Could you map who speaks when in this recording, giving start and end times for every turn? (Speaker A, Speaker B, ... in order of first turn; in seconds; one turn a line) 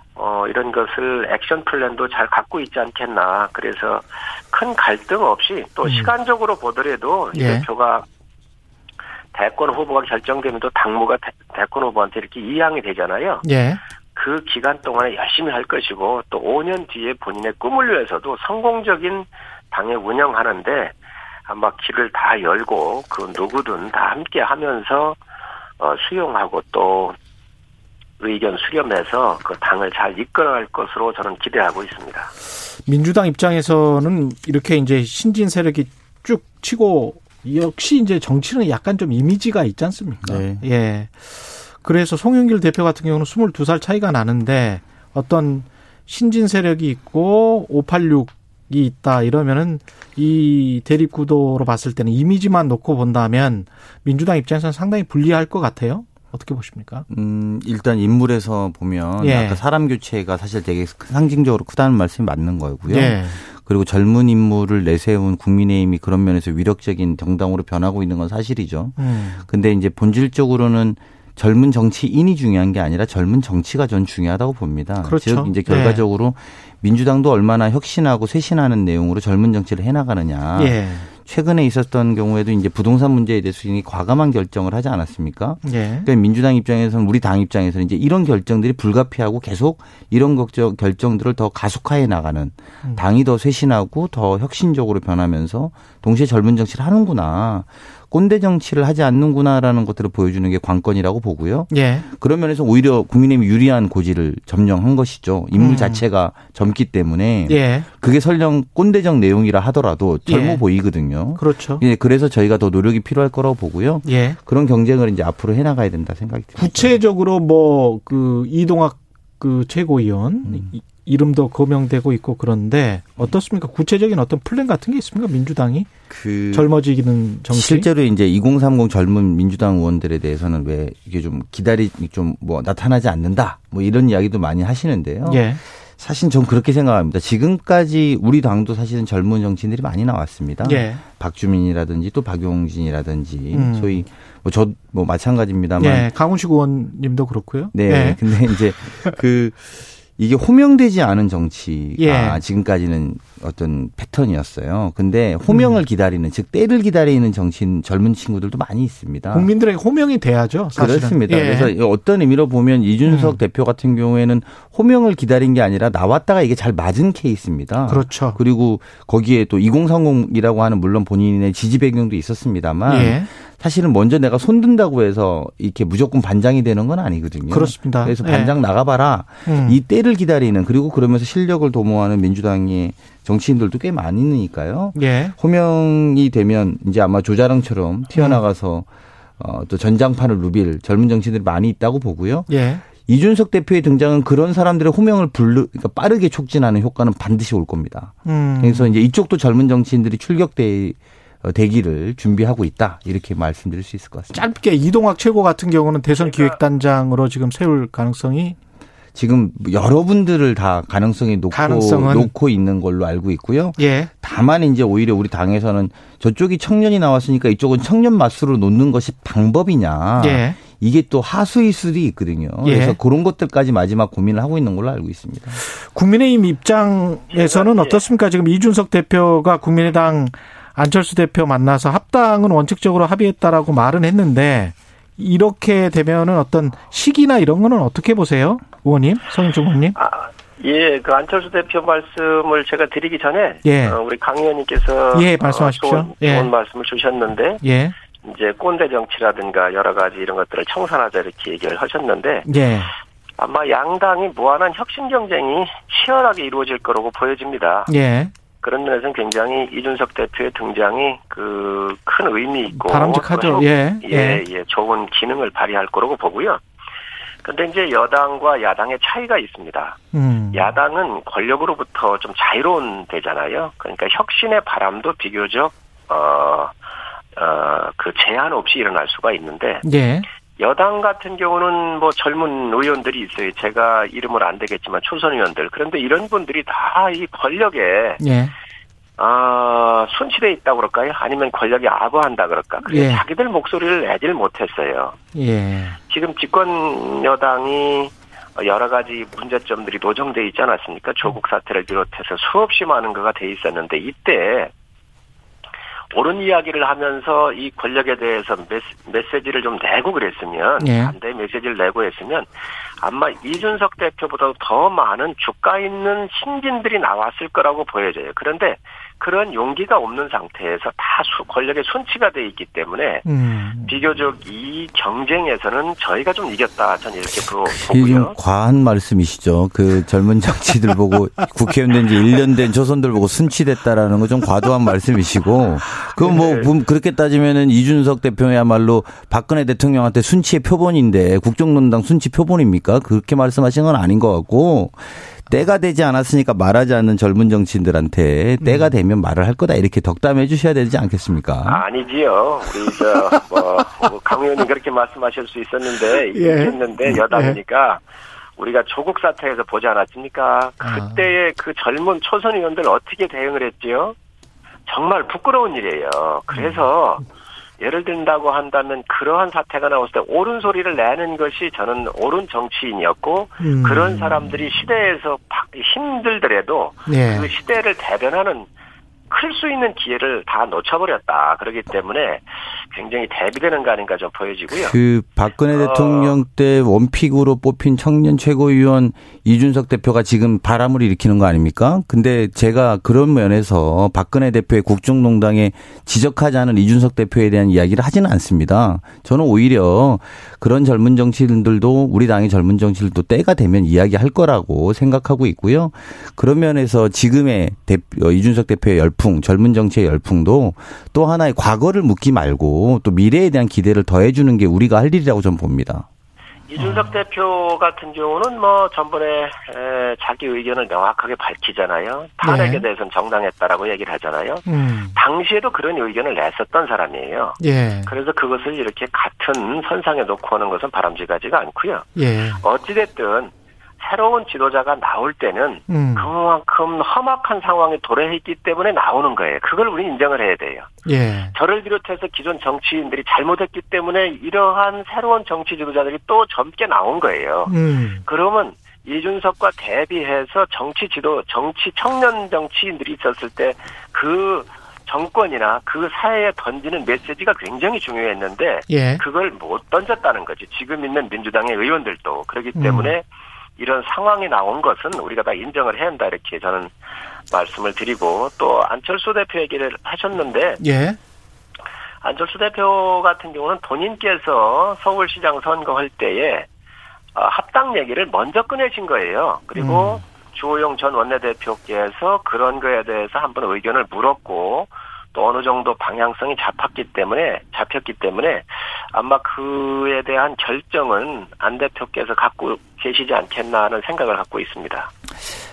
Speaker A: 0.1-8.1
Speaker B: 5.8-6.1
Speaker B: 7.3-7.7
Speaker A: 9.3-13.4
Speaker B: 13.4-13.8
Speaker A: 14.1-20.9
Speaker A: 21.5-25.2
Speaker A: 25.8-27.1
Speaker A: 28.2-32.3
Speaker B: 32.9-57.0
Speaker C: 40.2-40.6
Speaker C: 57.1-69.0
Speaker B: 59.2-59.6
Speaker B: 62.9-63.4
Speaker B: 69.0-69.4
Speaker C: 69.5-117.0
Speaker B: 75.0-76.0
Speaker B: 80.5-81.1
Speaker B: 85.6-86.1
Speaker B: 101.7-102.1
Speaker B: 105.5-106.0
Speaker B: 107.5-107.9
Speaker B: 110.2-110.6
Speaker B: 111.3-111.8
Speaker B: 114.0-114.4
Speaker B: 116.6-125.9
Speaker C: 126.1-126.7
Speaker B: 126.5-127.9
Speaker C: 127.5-146.1
Speaker B: 135.2-135.6
Speaker B: 140.6-141.0
Speaker B: 143.5-144.0
Speaker B: 145.8-148.2
Speaker C: 147.7-159.5
Speaker B: 152.0-152.4
Speaker B: 155.5-155.8
Speaker B: 159.3-161.7
Speaker C: 160.8-188.9
Speaker B: 163.1-163.4
Speaker B: 167.9-168.4
Speaker B: 172.9-173.3
Speaker B: 177.5-178.5
Speaker B: 179.4-179.8
Speaker B: 184.9-185.3
Speaker B: 188.1-188.4
Speaker C: 189.4-204.4
Speaker B: 192.5-192.8
Speaker B: 198.2-198.9
Speaker B: 204.3-208.6
Speaker A: 206.3-206.6
Speaker C: 209.1-225.6
Speaker B: 211.5-212.3
Speaker B: 213.8-214.1
Speaker B: 220.2-220.6
Speaker B: 222.6-223.0
Speaker B: 225.6-239.9
Speaker A: 227.3-228.0
Speaker A: 239.9-247.6
Speaker B: 243.6-244.0
Speaker B: 245.1-246.5
Speaker B: 247.6-247.9
Speaker A: 248.2-252.5
Speaker B: 252.4-252.9
Speaker A: 253.4-257.9
Speaker B: 257.9-258.3
Speaker A: 258.6-266.6
Speaker B: 262.7-264.4
Speaker A: 267.4-270.0
Speaker B: 270.1-270.7
Speaker A: 270.5-276.7
Speaker A: 277.3-279.8
Speaker B: 279.8-280.3
Speaker A: 280.6-288.2
Speaker B: 288.2-288.5
Speaker A: 289.2-295.2
Speaker B: 292.9-293.2
Speaker B: 295.3-296.0
Speaker A: 296.1-304.7
Speaker A: 306.1-312.5
Speaker B: 310.8-311.1
Speaker A: 313.0-323.2
Speaker B: 323.2-323.9
Speaker A: 323.8-328.4
Speaker C: 327.6-351.8
Speaker B: 348.6-348.9
Speaker A: 351.6-358.0
Speaker B: 356.3-357.6
Speaker A: 358.6-364.1
Speaker B: 360.8-361.3
Speaker A: 364.9-367.2
Speaker B: 366.5-366.9
Speaker A: 367.8-378.7
Speaker B: 373.6-374.3
Speaker B: 377.1-377.5
Speaker A: 379.3-384.9
Speaker C: 384.7-416.1
Speaker A: 385.7-386.4
Speaker A: 416.7-432.1
Speaker B: 416.8-417.1
Speaker B: 422.4-422.8
Speaker B: 424.6-425.1
Speaker B: 427.6-428.1
Speaker B: 432.1-432.6
Speaker A: 432.6-440.9
Speaker B: 435.9-436.3
Speaker B: 441.0-441.5
Speaker A: 441.5-447.7
Speaker B: 447.7-448.2
Speaker A: 448.2-463.2
Speaker B: 458.9-459.2
Speaker B: 462.8-463.1
Speaker A: 463.8-466.9
Speaker A: 467.5-470.8
Speaker B: 470.8-471.2
Speaker A: 472.2-476.7
Speaker A: 477.3-495.1
Speaker B: 479.8-480.2